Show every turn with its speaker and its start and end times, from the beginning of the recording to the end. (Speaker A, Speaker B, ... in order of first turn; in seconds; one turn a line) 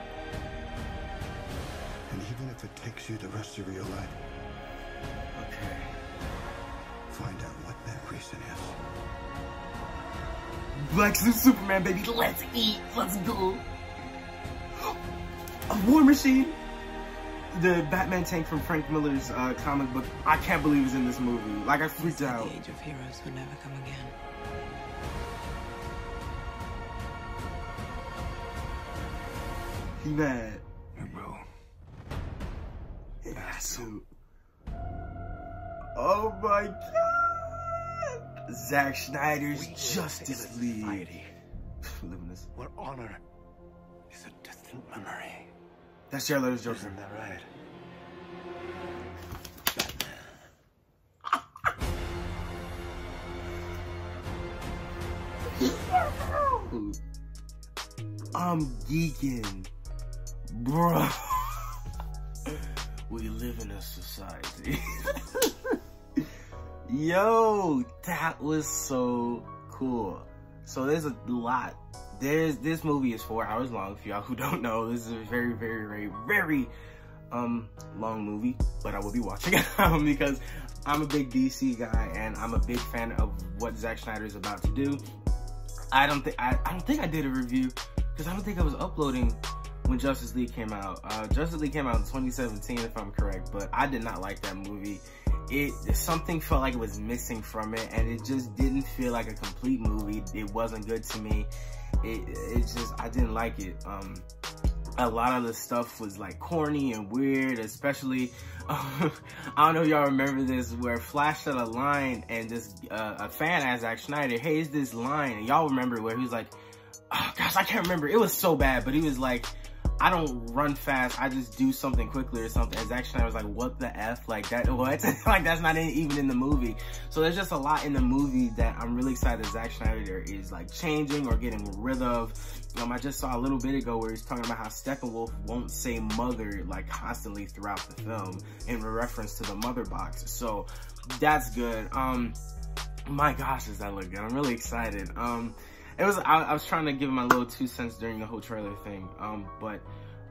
Speaker A: 2.1-4.2
Speaker B: 5.4-5.9
Speaker A: 7.1-8.8
Speaker B: 10.8-13.6
Speaker B: 15.7-16.6
Speaker B: 17.5-22.6
Speaker C: 22.0-24.1
Speaker B: 30.0-30.6
Speaker D: 31.0-31.5
Speaker B: 33.2-34.1
Speaker A: 33.6-33.9
Speaker B: 36.0-37.8
Speaker B: 38.5-41.1
Speaker D: 39.5-41.3
Speaker B: 42.0-42.5
Speaker D: 42.5-43.2
Speaker D: 44.1-45.5
Speaker B: 46.1-47.0
Speaker D: 46.7-47.5
Speaker D: 49.8-50.3
Speaker B: 55.6-57.0
Speaker B: 58.3-59.7
Speaker B: 60.5-61.7
Speaker B: 62.5-66.2
Speaker B: 66.9-76.7
Speaker B: 77.3-85.0
Speaker B: 85.9-101.5
Speaker B: 102.0-104.3
Speaker B: 105.0-116.5
Speaker B: 117.1-142.4
Speaker B: 143.1-149.9